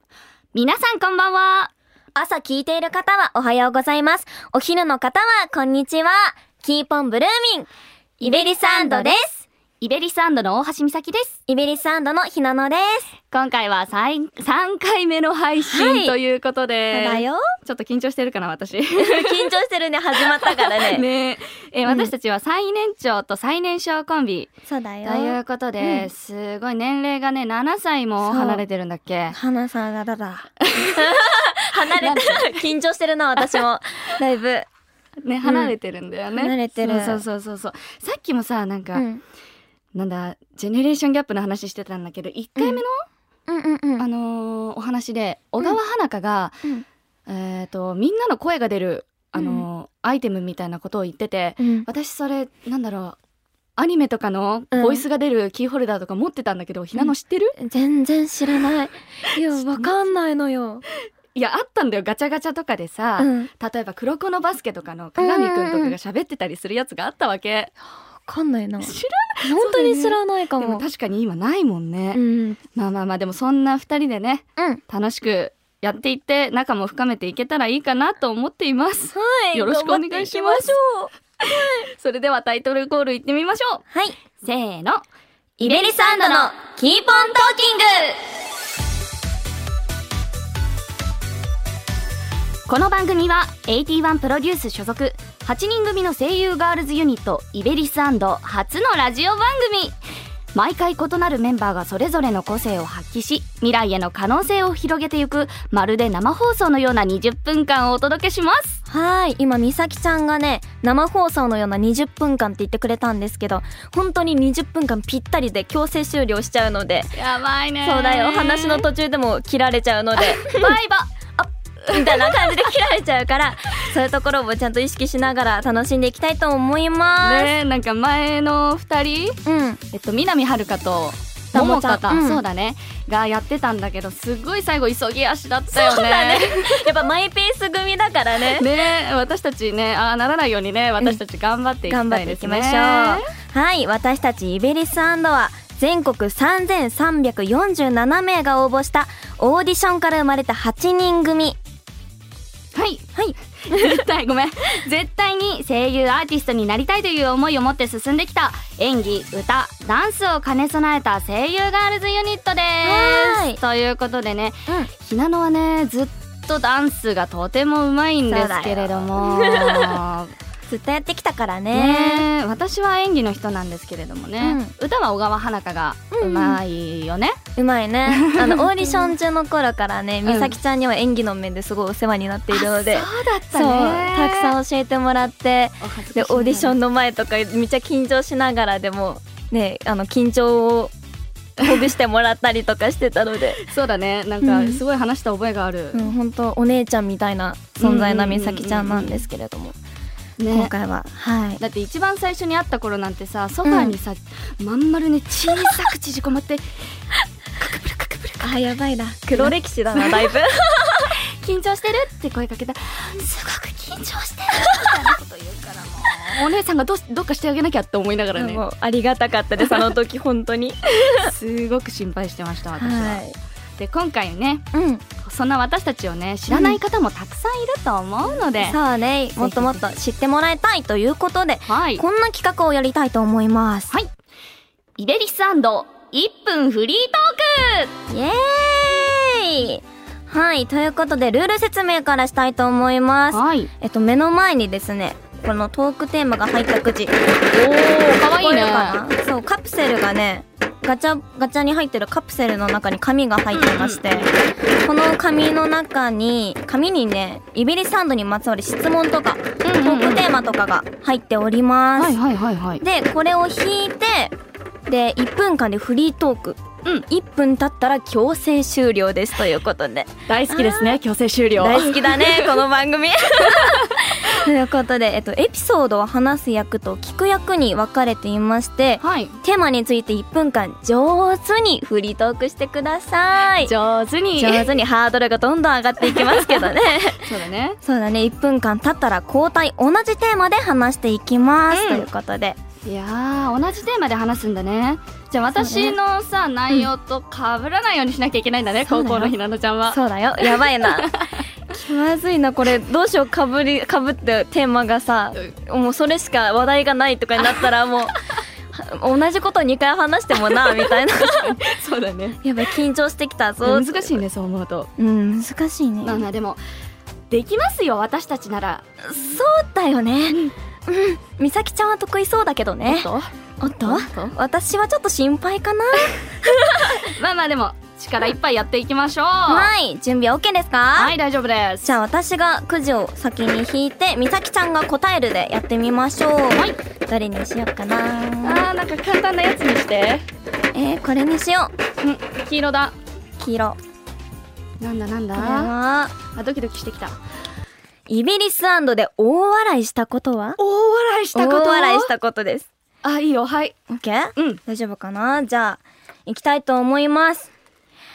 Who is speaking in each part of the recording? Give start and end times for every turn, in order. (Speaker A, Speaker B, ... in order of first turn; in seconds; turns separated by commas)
Speaker A: 0.5-1.7, Speaker B: 2.1-9.4, Speaker A: 8.2-9.2, Speaker A: 9.8-11.3, Speaker B: 11.5-13.1, Speaker A: 13.3-19.5, Speaker B: 15.6-16.1, Speaker B: 16.9-17.4, Speaker B: 19.0-21.0, Speaker A: 20.1-24.5, Speaker B: 21.9-22.1, Speaker B: 24.7-26.1, Speaker A: 25.0-29.4, Speaker B: 28.2-28.6, Speaker B: 29.3-34.7, Speaker A: 30.7-31.2, Speaker A: 31.9-32.6, Speaker A: 35.2-39.0, Speaker B: 35.4-35.7, Speaker B: 36.3-37.2, Speaker B: 38.9-39.2, Speaker A: 39.9-43.0, Speaker B: 42.6-42.8, Speaker B: 43.5-44.0, Speaker A: 44.0-46.5, Speaker A: 47.3-53.2, Speaker B: 49.3-49.6, Speaker B: 51.6-51.9, Speaker A: 53.8-57.5, Speaker B: 54.7-55.0, Speaker B: 56.9-60.8, Speaker A: 59.6-59.9, Speaker A: 61.3-67.7, Speaker B: 63.2-63.5, Speaker B: 65.2-65.9, Speaker B: 68.2-70.8, Speaker A: 68.8-72.2, Speaker B: 72.1-72.6, Speaker A: 72.7-80.7, Speaker B: 79.1-81.8, Speaker A: 81.4-83.8, Speaker B: 83.9-84.2, Speaker A: 84.4-85.0, Speaker B: 85.6-88.1, Speaker A: 85.6-86.6, Speaker A: 92.7-100.0, Speaker A: 100.5-108.8, Speaker B: 108.9-117.2, Speaker A: 117.2-118.9, Speaker B: 117.8-120.8, Speaker A: 120.2-122.7, Speaker B: 121.9-127.5, Speaker A: 127.2-129.4, Speaker B: 129.4-129.8, Speaker A: 129.9-136.8, Speaker B: 131.5-132.4, Speaker B: 135.7-138.7, Speaker A: 138.5-143.3, Speaker B: 141.9-151.6, Speaker A: 152.7-153.1, Speaker B: 153.1-154.0, Speaker A: 153.6-170.3, Speaker B: 162.8-163.6, Speaker B: 168.3-170.0, Speaker B: 170.7-172.3, Speaker A: 171.7-177.4, Speaker B: 174.4-174.7, Speaker B: 176.1-176.6, Speaker B: 177.6-190.9, Speaker A: 178.1-179.1, Speaker A: 180.2-180.5, Speaker A: 182.5-184.5, Speaker A: 185.8-186.8, Speaker B: 191.6-193.6, Speaker A: 193.7-196.1, Speaker B: 194.4-194.8, Speaker B: 195.9-199.8, Speaker A: 197.8-199.2, Speaker A: 200.4-200.7, Speaker B: 200.5-201.6, Speaker A: 201.6-206.8, Speaker B: 203.6-203.9, Speaker A: 207.6-208.5, Speaker B: 208.4-211.1, Speaker A: 209.3-210.4, Speaker A: 211.3-218.6, Speaker B: 218.3-221.3, Speaker A: 221.0-223.2, Speaker B: 222.7-223.3, Speaker A: 223.8-224.6, Speaker B: 224.7-225.0, Speaker A: 225.2-228.8, Speaker B: 226.5-226.8, Speaker B: 228.3-234.0, Speaker A: 229.4-229.8, Speaker A: 231.7-232.0, Speaker A: 235.0-237.9, Speaker B: 238.1-247.2, Speaker A: 243.3-243.7, Speaker A: 247.5-249.0, Speaker B: 248.3-262.2, Speaker A: 253.5-254.3, Speaker A: 259.6-260.3, Speaker A: 262.0-262.8, Speaker B: 262.8-264.3, Speaker B: 264.9-271.0, Speaker A: 270.3-272.6, Speaker B: 271.6-283.7, Speaker A: 279.0-279.4, Speaker A: 283.6-284.7, Speaker B: 284.4-287.2, Speaker A: 286.1-287.8, Speaker B: 287.8-292.6, Speaker A: 291.7-292.1, Speaker A: 292.8-301.4, Speaker B: 295.5-296.0, Speaker B: 298.9-299.3, Speaker B: 299.9-301.2, Speaker B: 301.7-311.6, Speaker A: 310.5-312.4, Speaker B: 312.4-314.2, Speaker A: 313.6-314.9, Speaker B: 315.0-316.2, Speaker A: 316.0-316.6, Speaker A: 317.3-318.8, Speaker B: 319.0-327.0, Speaker A: 322.8-324.4, Speaker A: 326.7-329.7, Speaker B: 329.5-331.1, Speaker A: 330.9-331.9, Speaker B: 331.8-338.7, Speaker A: 338.4-340.2, Speaker B: 340.7-341.7, Speaker A: 342.0-342.9, Speaker B: 343.4-343.8, Speaker A: 344.8-345.7, Speaker B: 345.4-346.1, Speaker A: 346.3-347.2, Speaker B: 348.1-350.6, Speaker A: 350.6-352.1, Speaker B: 351.3-352.7, Speaker A: 353.0-353.8, Speaker B: 353.9-357.5